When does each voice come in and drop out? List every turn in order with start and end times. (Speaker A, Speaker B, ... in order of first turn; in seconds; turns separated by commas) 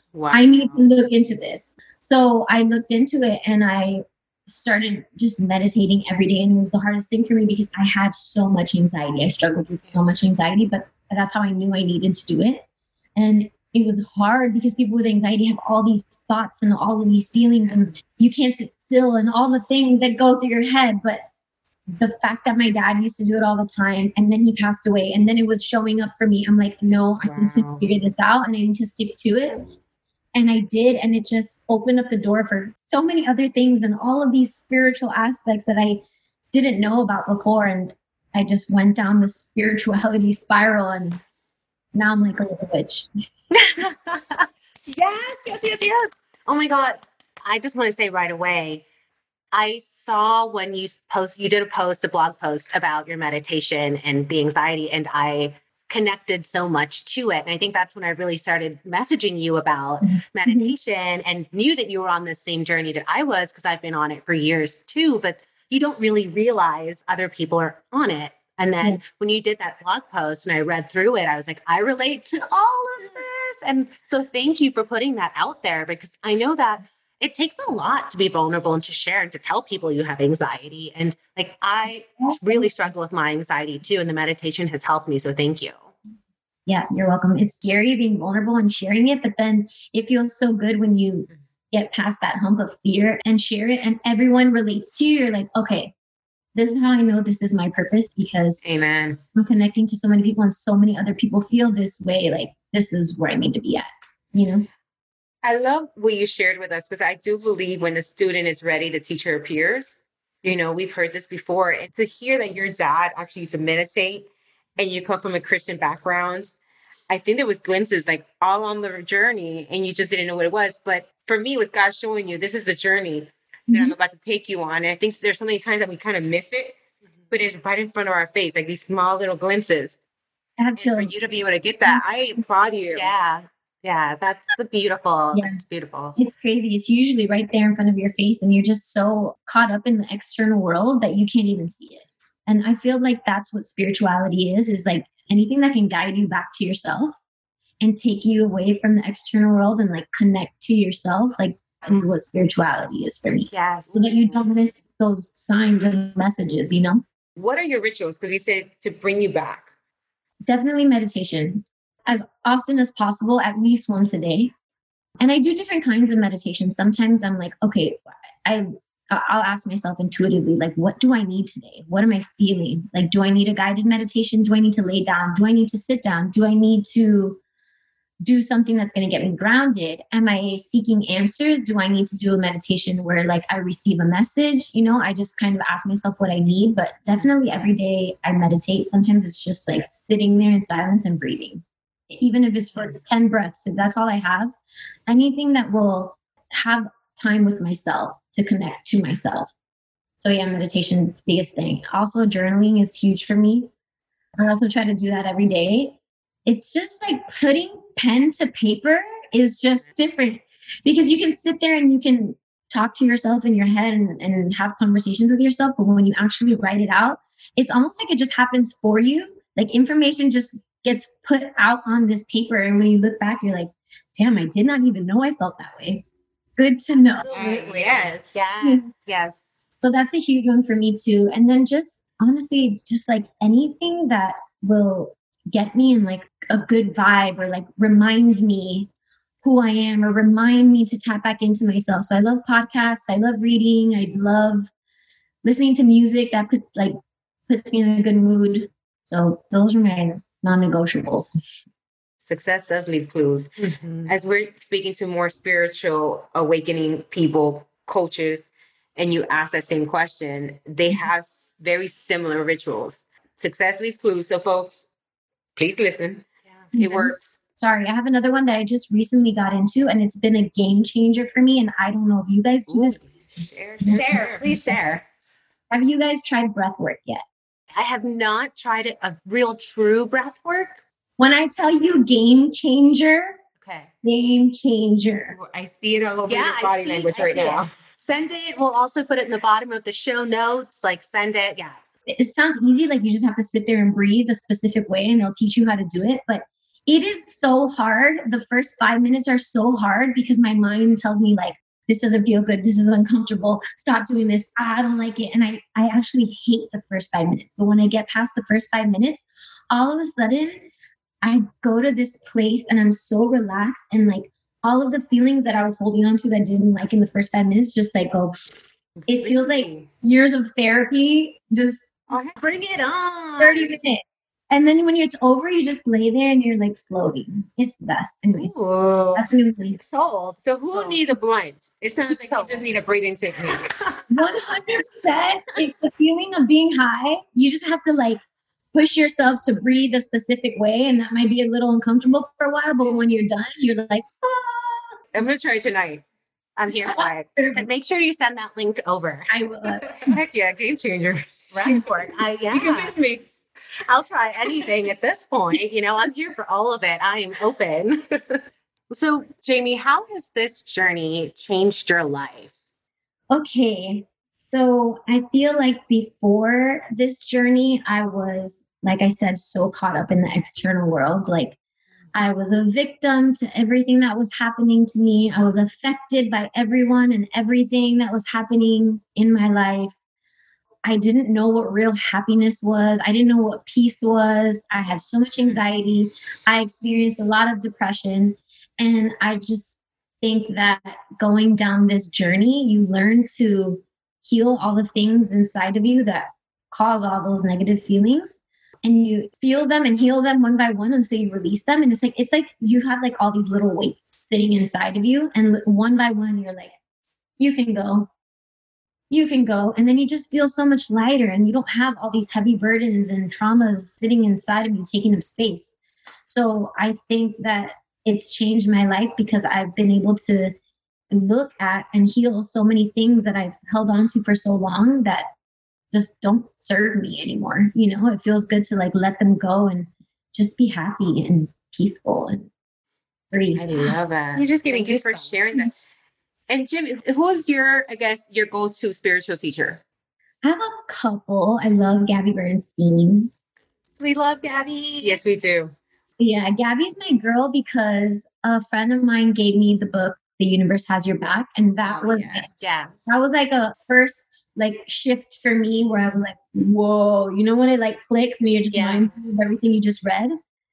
Speaker A: 0.1-0.8, Speaker B: 0.3-12.6, Speaker B: 13.2-21.2, Speaker B: 22.0-29.6, Speaker A: 27.2-27.9, Speaker B: 30.3-41.2, Speaker B: 41.9-43.1, Speaker C: 43.6-48.8, Speaker C: 49.5-85.9, Speaker B: 60.4-60.7, Speaker B: 82.2-82.7, Speaker B: 86.7-95.9, Speaker B: 96.5-98.6, Speaker A: 98.6-99.2, Speaker B: 99.3-104.7, Speaker A: 105.4-116.5, Speaker A: 117.1-126.8, Speaker B: 123.7-123.9, Speaker A: 127.3-130.0, Speaker B: 130.6-131.1, Speaker A: 130.8-133.1, Speaker C: 132.9-136.2, Speaker B: 136.2-147.2, Speaker B: 147.8-157.0, Speaker A: 153.5-154.4, Speaker A: 157.3-159.7, Speaker B: 160.5-164.5, Speaker B: 165.2-177.4, Speaker B: 178.2-194.5, Speaker B: 195.1-199.5, Speaker B: 200.2-203.7, Speaker B: 204.4-226.0, Speaker B: 226.6-227.3, Speaker C: 227.0-229.4, Speaker A: 227.3-228.4, Speaker B: 228.6-228.9, Speaker B: 229.8-238.9, Speaker B: 239.4-244.7, Speaker B: 245.4-247.0, Speaker B: 247.5-251.3, Speaker A: 252.2-253.5, Speaker C: 253.6-254.1, Speaker A: 254.0-264.9, Speaker A: 265.6-267.1, Speaker B: 266.7-273.0, Speaker C: 266.8-267.1, Speaker A: 272.7-274.5, Speaker C: 273.8-275.0, Speaker B: 275.7-277.2, Speaker C: 277.7-280.8, Speaker B: 281.2-283.4, Speaker C: 283.6-283.9, Speaker B: 284.0-285.4, Speaker A: 285.3-287.7, Speaker C: 286.2-291.8, Speaker B: 287.2-287.6, Speaker B: 292.1-310.7, Speaker B: 311.2-318.3, Speaker A: 319.1-319.9, Speaker B: 319.1-321.9, Speaker A: 322.1-322.4, Speaker C: 322.4-323.8, Speaker B: 323.4-328.5, Speaker A: 328.4-329.2, Speaker B: 329.1-329.8, Speaker C: 329.7-331.0, Speaker A: 330.4-333.6, Speaker C: 332.0-332.6, Speaker C: 333.5-334.0, Speaker B: 334.1-338.2, Speaker B: 338.7-344.8, Speaker A: 345.1-346.0, Speaker C: 346.6-350.2, Speaker B: 346.8-347.6, Speaker B: 349.3-350.1, Speaker A: 350.0-351.9, Speaker C: 351.5-352.9, Speaker A: 352.5-353.3, Speaker C: 353.9-362.5, Speaker B: 363.3-371.6, Speaker B: 372.1-380.0, Speaker B: 380.8-406.7, Speaker B: 407.4-408.1, Speaker B: 409.1-415.7, Speaker B: 416.2-420.6, Speaker B: 421.1-425.3, Speaker B: 425.9-432.5, Speaker B: 433.3-433.9, Speaker A: 433.6-435.8, Speaker C: 434.3-435.7, Speaker A: 436.5-439.8, Speaker B: 440.4-443.3, Speaker C: 444.0-445.2, Speaker A: 445.0-445.7, Speaker B: 446.2-460.3, Speaker A: 451.8-452.5, Speaker C: 452.5-452.9, Speaker C: 458.7-459.1